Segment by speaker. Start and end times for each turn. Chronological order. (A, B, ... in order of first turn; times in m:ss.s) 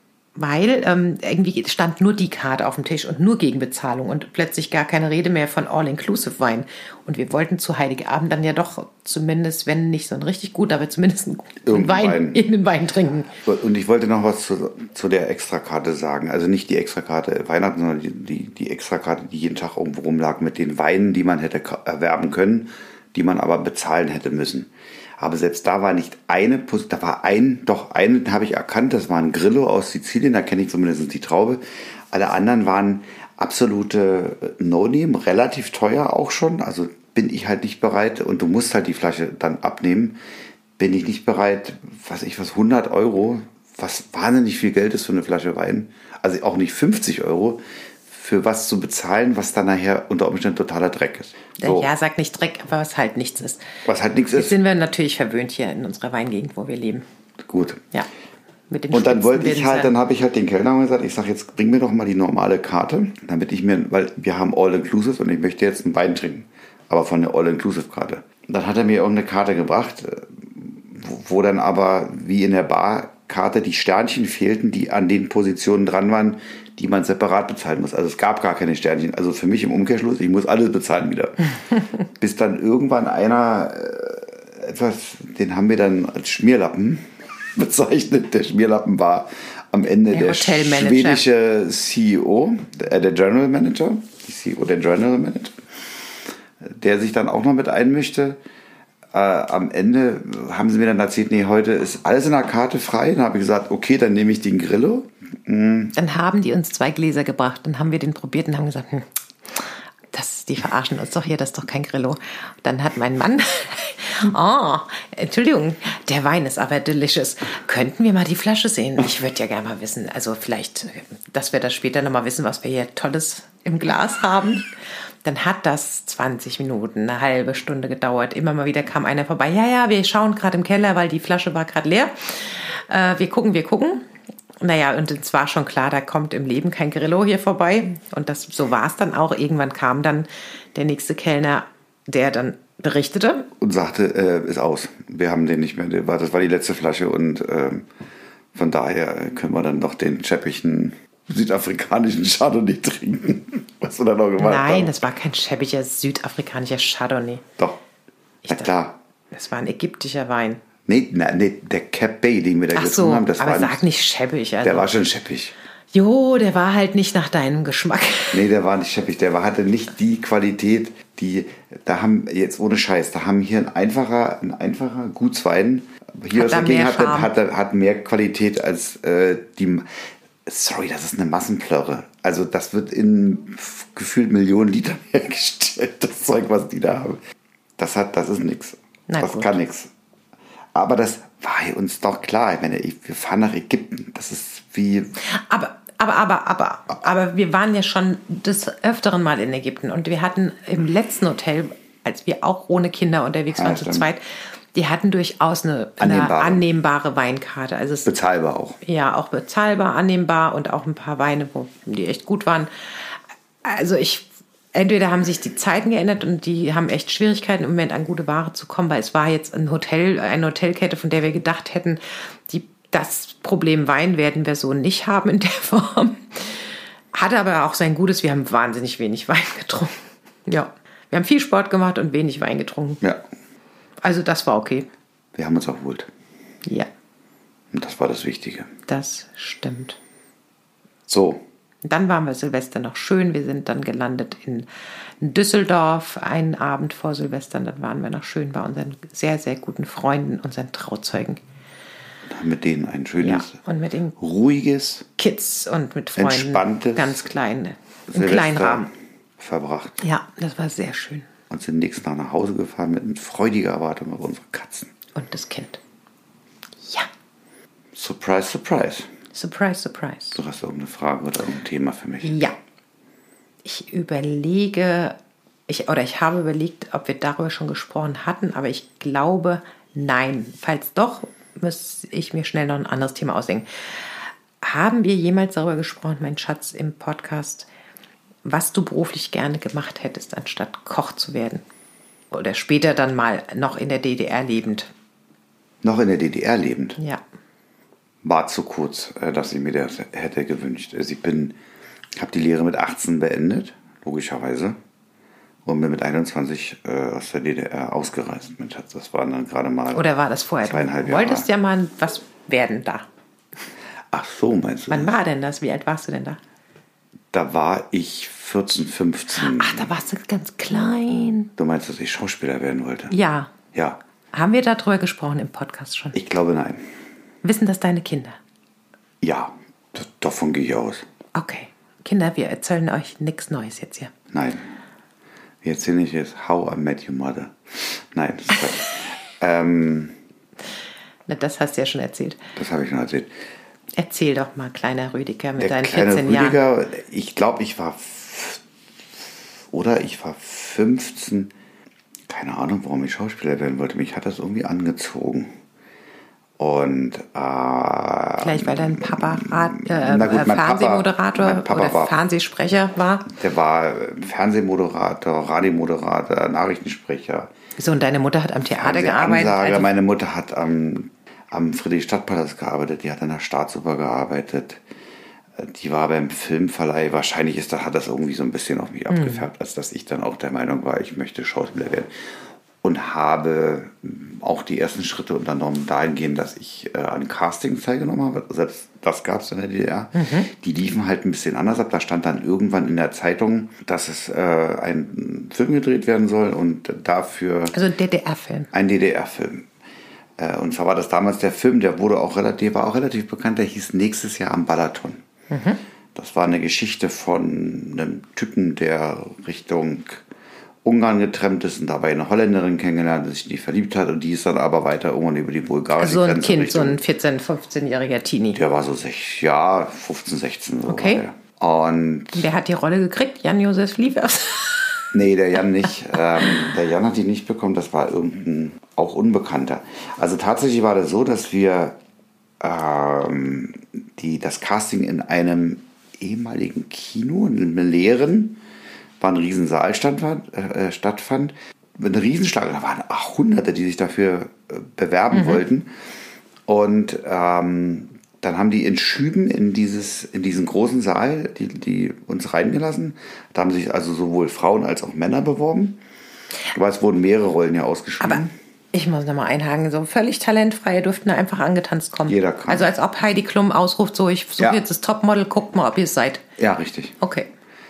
0:00.4-0:13.3 A
0:11.6-0:12.4 B
0:13.4-0:40.2 B
0:40.8-0:51.9 B
0:51.6-0:53.6 A
0:53.8-0:54.6 B
0:54.3-0:57.0 A
0:57.5-0:57.8 B
0:58.7-0:59.9 A
0:58.9-1:21.5 B
1:22.1-1:35.6 B
1:30.1-1:31.2 A
1:36.6-1:38.4 B
1:39.1-1:46.0 B
1:46.0-2:04.7 A
2:05.2-2:14.0 A
2:14.6-2:23.5 A
2:23.6-2:27.9 B
2:28.6-2:34.9 B
2:34.4-2:37.4 A
2:38.5-2:39.0 B
2:39.3-2:40.6 A
2:40.8-2:43.8 B
2:42.8-2:44.9 A
2:44.6-2:45.5 B
2:45.9-2:48.4 A
2:48.3-2:59.9 B
2:56.3-2:57.3 A
3:00.4-3:07.2 B
3:07.8-3:09.9 B
3:09.1-3:09.6 A
3:10.8-3:15.2 B
3:15.2-3:28.1 A
3:23.5-3:24.1 B
3:26.0-3:26.6 B
3:28.0-3:28.8 B
3:28.8-3:53.0 A
3:54.0-3:54.9 A
3:55.4-3:56.1 B
3:56.6-3:56.9 A
3:57.7-3:58.7 B
3:58.9-4:00.0 A
4:01.1-4:01.4 B
4:01.8-4:04.7 A
4:05.2-4:11.4 A
4:12.3-4:13.6 B
4:13.2-4:14.1 A
4:14.2-4:15.1 B
4:15.2-4:18.9 A
4:16.2-4:17.2 B
4:18.1-4:18.9 B
4:19.4-4:20.0 B
4:20.0-4:21.3 A
4:21.5-4:24.9 B
4:25.1-4:25.8 A
4:26.8-4:27.1 A
4:27.9-4:29.1 B
4:29.3-4:30.4 A
4:30.4-4:32.4 B
4:32.2-4:32.6 A
4:33.6-4:35.1 A
4:35.7-4:47.7 A
4:48.4-4:51.6 A
4:52.3-4:54.9 A
4:55.8-4:57.0 B
4:58.2-5:01.6 B
5:02.2-5:04.8 B
5:05.6-5:10.0 B
5:09.9-5:13.1 A
5:10.6-5:11.5 B
5:14.1-5:15.1 B
5:14.9-5:16.4 A
5:17.3-5:19.9 B
5:19.3-5:21.5 A
5:21.6-5:23.1 B
5:23.1-5:23.5 A
5:23.7-5:24.0 B
5:24.3-5:26.2 A
5:26.1-5:26.8 B
5:27.4-5:28.4 A
5:29.2-5:31.0 B
5:31.3-5:34.1 A
5:34.3-5:34.6 B
5:35.6-5:40.1 B
5:41.3-5:42.4 A
5:42.6-5:43.3 B
5:44.0-5:46.6 A
5:45.6-5:48.6 B
5:49.7-5:51.5 B
5:52.3-5:55.5 B
5:56.6-6:02.1 B
5:58.4-6:03.3 A
6:03.3-6:07.5 B
6:07.8-6:09.9 A
6:08.7-6:14.8 B
6:15.6-6:22.1 B
6:19.1-6:19.4 A
6:22.8-6:37.8 B
6:30.1-6:30.5 A
6:37.7-6:38.7 A
6:38.7-6:39.7 B
6:40.4-6:45.2 B
6:45.5-6:45.8 A
6:46.1-6:50.2 B
6:50.8-6:57.0 B
6:56.0-6:58.6 A
6:58.5-7:02.5 B
7:00.9-7:01.2 A
7:02.3-7:05.1 A
7:05.1-7:12.0 B
7:12.6-7:18.6 B
7:19.2-7:25.9 B
7:25.3-7:25.6 A
7:26.7-7:36.0 B
7:36.7-7:38.5 B
7:38.9-7:46.4 A
7:42.3-7:42.9 B
7:46.6-7:47.2 B
7:47.2-7:47.5 A